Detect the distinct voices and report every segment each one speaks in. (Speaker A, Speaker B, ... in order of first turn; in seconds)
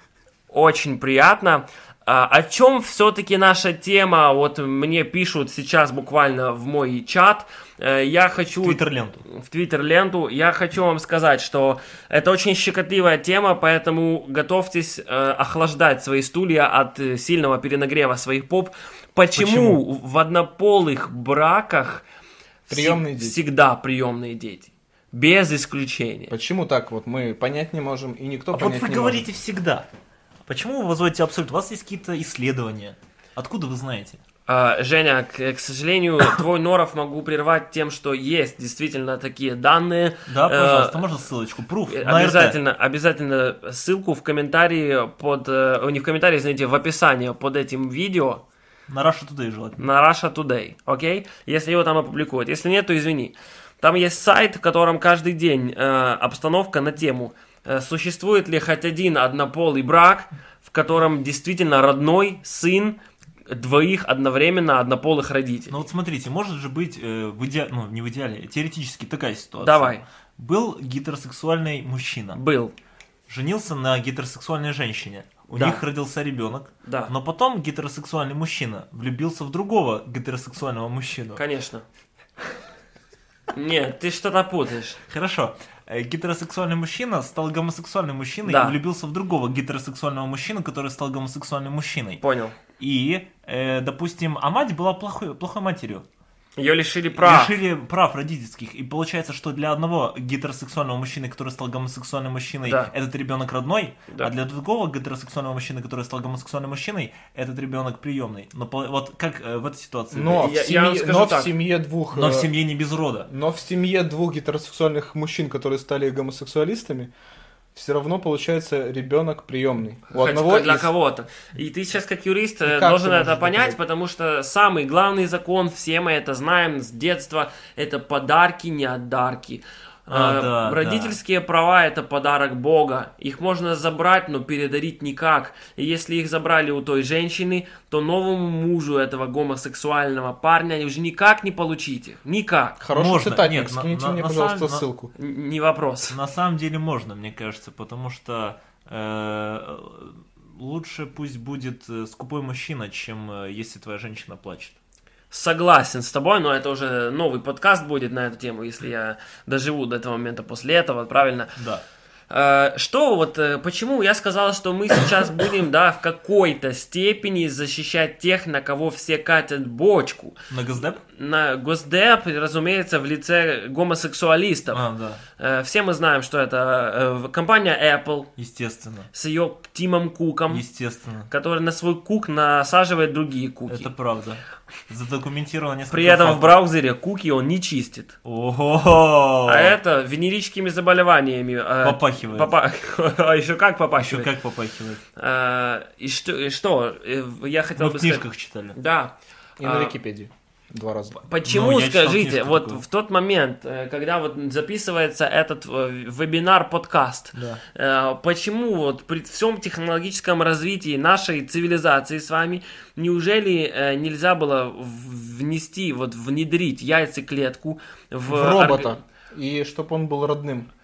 Speaker A: 0.5-22.0, 22.7-26.3, 34.5-41.0, 41.9-48.4, 49.8-63.0, 63.5-65.8, 69.6-70.0, 72.3-72.7, 75.5-75.8, 76.8-77.1, 81.4-81.8, 83.5-85.0, 88.5-88.8, 92.2-92.6, 96.6-97.6, 102.7-102.9, 110.4-111.5, 120.1-142.8, 145.2-146.2, 155.3-161.6, 162.3-170.4, 171.0-174.8, 175.4-178.3, 179.1-180.7, 181.3-183.9, 185.9-188.2, 189.5-194.3, 195.2-199.9, 201.2-218.9
Speaker B: 8.6-9.2, 19.4-19.8, 28.5-29.9, 30.5-34.2, 40.3-42.6, 48.9-49.8, 65.7-72.4, 73.3-81.4, 85.1-92.2, 92.8-96.0, 97.2-110.5, 112.1-113.3, 130.1-131.2, 142.9-144.9, 146.1-154.8, 161.6-161.8, 170.5-171.0, 174.7-175.2, 178.4-179.1, 180.5-181.3, 183.7-186.6, 188.2-189.8, 191.8-192.5, 194.0-195.0, 197.8-198.8, 201.4-202.8, 207.3-207.6
Speaker C: 22.7-23.4, 26.3-29.3, 110.1-112.5, 113.3-117.1, 117.7-120.9, 122.7-123.8, 142.8-145.1, 199.6-201.2, 218.3-220.7